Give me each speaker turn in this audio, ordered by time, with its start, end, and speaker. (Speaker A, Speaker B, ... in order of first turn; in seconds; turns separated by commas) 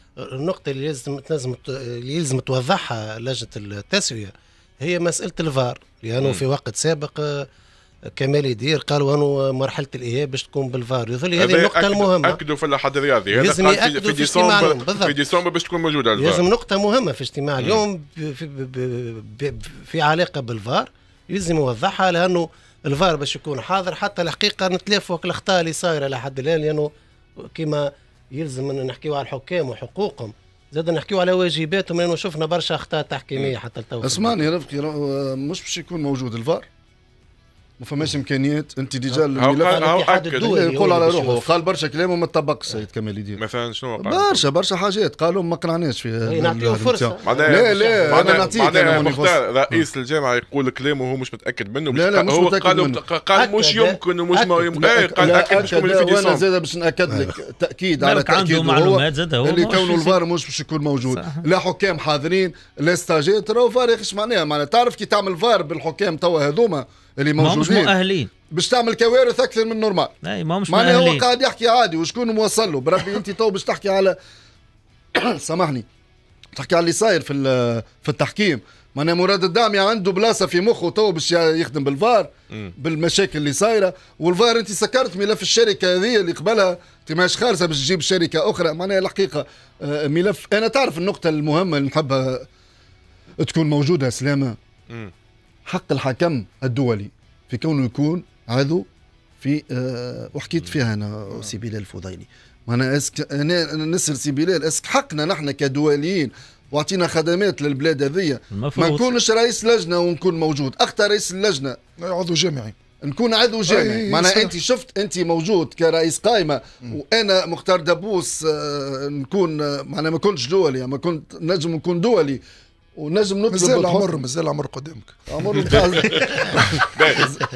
Speaker A: 0.2-7.5, Speaker A: 8.2-12.4, Speaker B: 11.4-16.4, Speaker A: 13.3-15.2, Speaker A: 16.2-26.9, Speaker A: 27.4-34.5, Speaker C: 34.0-36.7, Speaker C: 37.8-39.9, Speaker A: 39.1-41.5, Speaker B: 39.4-40.5, Speaker C: 40.4-43.4, Speaker B: 43.4-44.5, Speaker C: 44.0-49.4, Speaker A: 46.3-49.0, Speaker B: 47.2-56.4, Speaker C: 51.9-53.0, Speaker A: 53.3-54.7, Speaker C: 54.8-67.9, Speaker A: 57.1-57.3, Speaker D: 58.0-60.2, Speaker D: 61.1-61.5, Speaker D: 67.4-68.3, Speaker C: 68.5-70.2, Speaker D: 70.2-71.2, Speaker C: 70.7-74.2, Speaker C: 75.2-75.9, Speaker C: 76.5-92.5, Speaker C: 93.4-94.6, Speaker C: 95.7-98.9, Speaker C: 99.4-111.8, Speaker D: 108.5-109.2, Speaker E: 112.0-112.8, Speaker C: 113.0-122.4, Speaker E: 113.7-114.5, Speaker C: 123.0-124.1, Speaker E: 123.5-125.7, Speaker C: 125.3-127.4, Speaker B: 125.7-126.2, Speaker B: 126.9-127.3